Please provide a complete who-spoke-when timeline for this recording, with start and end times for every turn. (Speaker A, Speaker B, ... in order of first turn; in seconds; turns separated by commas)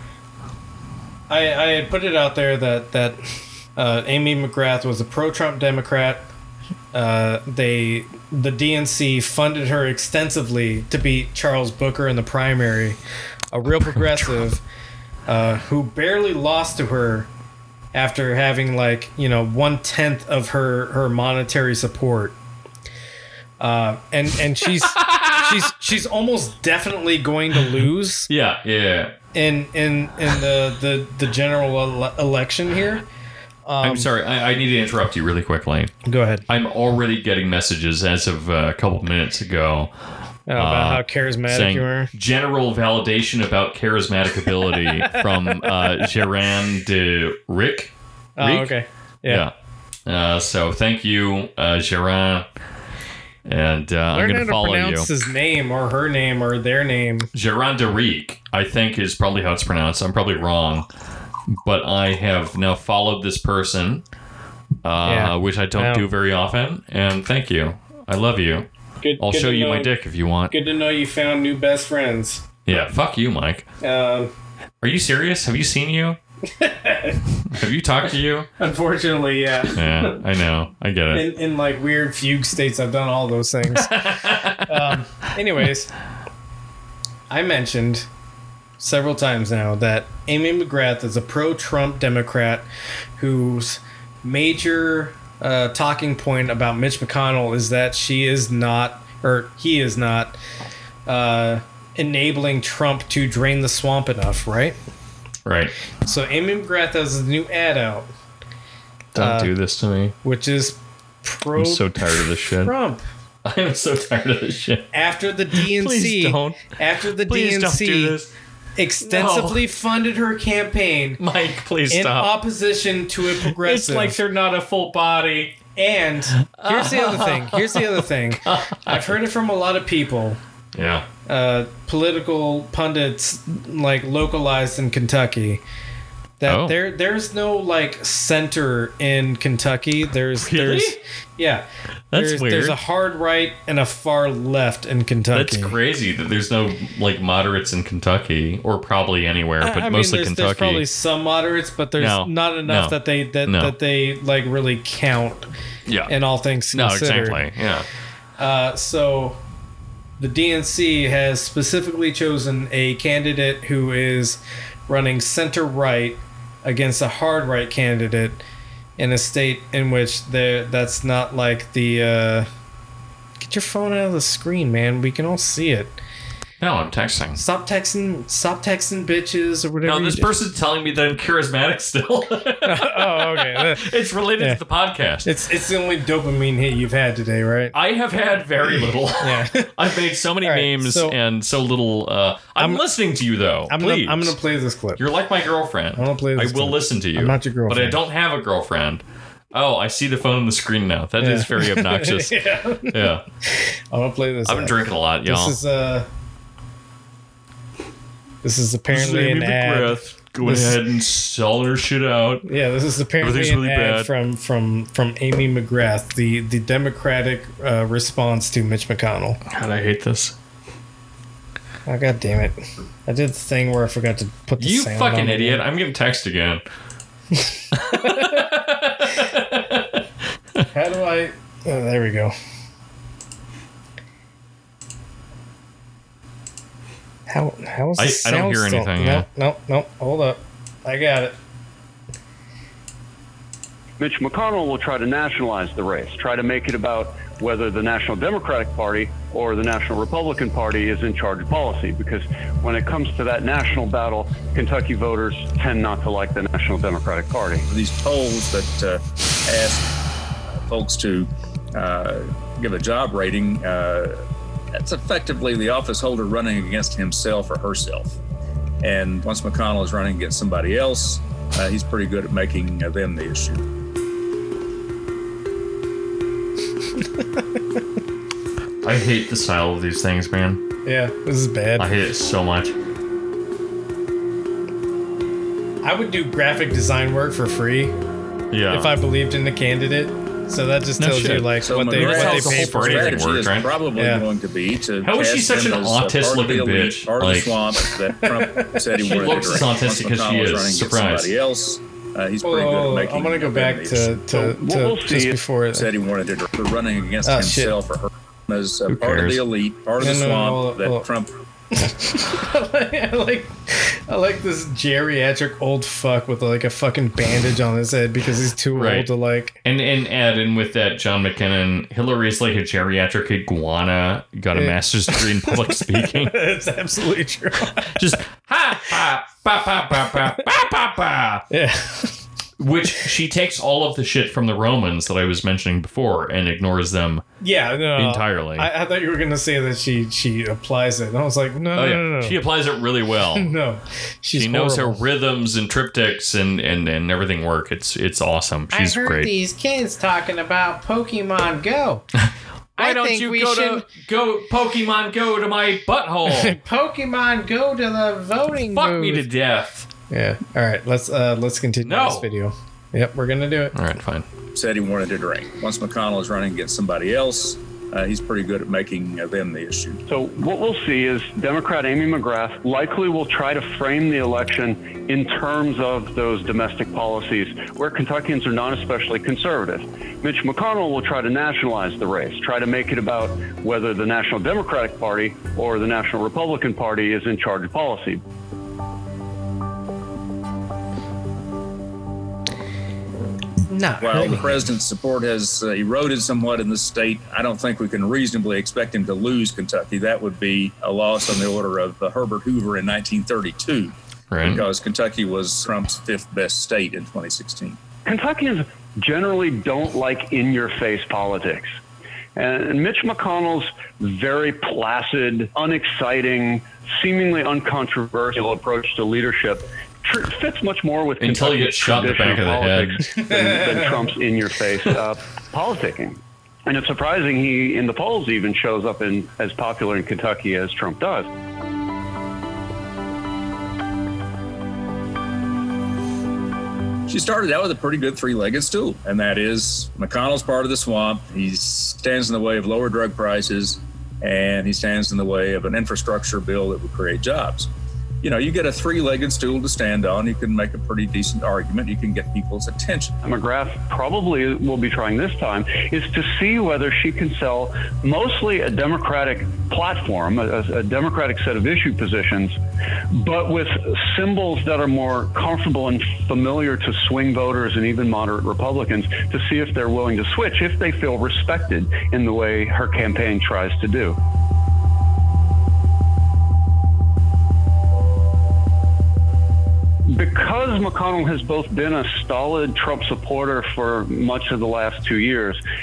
Speaker A: 1.3-6.3, Speaker A: 6.9-13.0, Speaker A: 13.5-14.6, Speaker B: 13.7-14.5, Speaker A: 15.3-17.3, Speaker A: 17.9-22.4, Speaker A: 23.6-28.3, Speaker B: 24.8-25.5, Speaker B: 28.3-29.1, Speaker A: 29.3-33.0, Speaker A: 33.6-34.1, Speaker B: 33.8-35.9, Speaker A: 36.0-36.4, Speaker B: 36.5-39.9, Speaker A: 40.5-42.1, Speaker B: 40.5-48.7, Speaker A: 48.4-49.5, Speaker B: 49.3-49.5, Speaker B: 50.0-52.5, Speaker B: 53.5-55.1, Speaker A: 54.1-57.3, Speaker B: 57.3-60.9, Speaker B: 61.6-64.0, Speaker B: 64.8-68.7, Speaker A: 65.0-66.1, Speaker A: 69.0-69.9, Speaker B: 69.2-70.5, Speaker A: 70.5-72.6, Speaker B: 72.6-73.7, Speaker A: 73.8-74.3, Speaker B: 74.8-76.2, Speaker A: 76.5-77.2, Speaker B: 77.5-78.5, Speaker A: 78.6-80.2, Speaker B: 79.7-81.2, Speaker A: 81.1-85.9, Speaker B: 83.7-84.9, Speaker A: 87.3-88.1, Speaker A: 88.8-92.7, Speaker A: 93.2-100.4, Speaker A: 101.0-104.8, Speaker B: 105.5-105.7, Speaker A: 106.0-108.1, Speaker B: 109.1-110.1, Speaker A: 109.2-109.5, Speaker A: 110.2-113.0, Speaker B: 111.5-112.7, Speaker B: 113.4-114.9, Speaker A: 114.9-118.2, Speaker B: 115.5-118.3, Speaker A: 118.8-121.2, Speaker B: 119.0-119.6, Speaker B: 121.2-122.3, Speaker A: 121.9-124.2, Speaker B: 123.4-125.6, Speaker A: 125.7-130.4, Speaker B: 126.4-129.1, Speaker B: 130.7-131.1, Speaker A: 131.2-135.6, Speaker A: 136.4-145.8, Speaker B: 136.4-136.8, Speaker B: 140.4-141.0, Speaker B: 142.1-142.8, Speaker B: 145.3-150.8, Speaker A: 149.6-155.5, Speaker B: 152.0-153.7, Speaker B: 155.9-156.1, Speaker A: 156.1-157.4, Speaker B: 156.7-157.8, Speaker A: 158.4-159.4, Speaker A: 160.2-168.4, Speaker A: 169.0-172.5, Speaker A: 173.4-176.0, Speaker B: 176.6-177.4, Speaker A: 177.3-180.3, Speaker B: 179.8-185.3, Speaker A: 182.6-183.9, Speaker A: 185.2-187.7, Speaker B: 187.7-194.3, Speaker A: 189.2-189.7, Speaker A: 190.4-191.2, Speaker A: 192.6-192.8, Speaker A: 193.7-195.0, Speaker B: 195.0-202.4, Speaker A: 195.9-198.0, Speaker A: 201.2-206.1, Speaker B: 202.9-203.2, Speaker B: 204.4-205.6, Speaker A: 208.4-210.8, Speaker B: 208.9-212.4, Speaker A: 212.4-219.4, Speaker B: 213.2-214.1, Speaker B: 219.5-220.3, Speaker A: 221.8-225.6, Speaker B: 224.6-226.6, Speaker A: 227.3-228.5, Speaker B: 227.7-230.0, Speaker A: 230.7-232.3, Speaker A: 237.3-241.3, Speaker B: 238.0-239.2, Speaker C: 244.0-257.7, Speaker D: 257.7-259.8, Speaker D: 260.7-264.2, Speaker D: 264.7-268.2, Speaker D: 268.8-273.6, Speaker B: 278.8-280.6, Speaker A: 280.8-281.9, Speaker B: 281.8-282.8, Speaker A: 285.8-287.9, Speaker B: 288.5-288.9, Speaker A: 288.7-294.2, Speaker B: 291.0-293.8, Speaker D: 291.6-292.2, Speaker D: 292.8-304.1, Speaker B: 295.0-297.6, Speaker A: 298.0-299.6, Speaker B: 299.0-301.3, Speaker A: 302.4-305.9, Speaker C: 304.3-305.4, Speaker D: 305.8-311.3, Speaker A: 307.2-307.8, Speaker B: 308.9-309.4, Speaker A: 310.0-311.1, Speaker A: 311.7-319.6, Speaker B: 318.7-319.1, Speaker B: 319.6-326.4, Speaker A: 324.5-328.0, Speaker B: 327.9-331.4, Speaker A: 331.5-332.2, Speaker B: 332.6-337.2, Speaker A: 337.4-342.4, Speaker B: 338.0-338.7, Speaker B: 341.7-343.5, Speaker A: 343.3-345.0, Speaker B: 344.3-349.3, Speaker A: 348.7-352.1, Speaker B: 352.2-356.5, Speaker A: 352.8-353.9, Speaker A: 356.2-359.3, Speaker B: 358.7-359.9, Speaker A: 360.1-363.7, Speaker B: 361.8-362.2, Speaker B: 363.7-364.3, Speaker D: 364.5-370.0, Speaker C: 370.1-388.2, Speaker A: 393.7-394.7, Speaker D: 394.0-407.8, Speaker B: 404.3-404.7, Speaker C: 408.0-411.7, Speaker C: 412.4-431.3, Speaker B: 421.2-423.0, Speaker A: 423.1-424.1, Speaker D: 437.1-447.7, Speaker D: 448.2-453.1, Speaker C: 453.2-462.5, Speaker C: 463.1-474.2, Speaker C: 480.1-485.6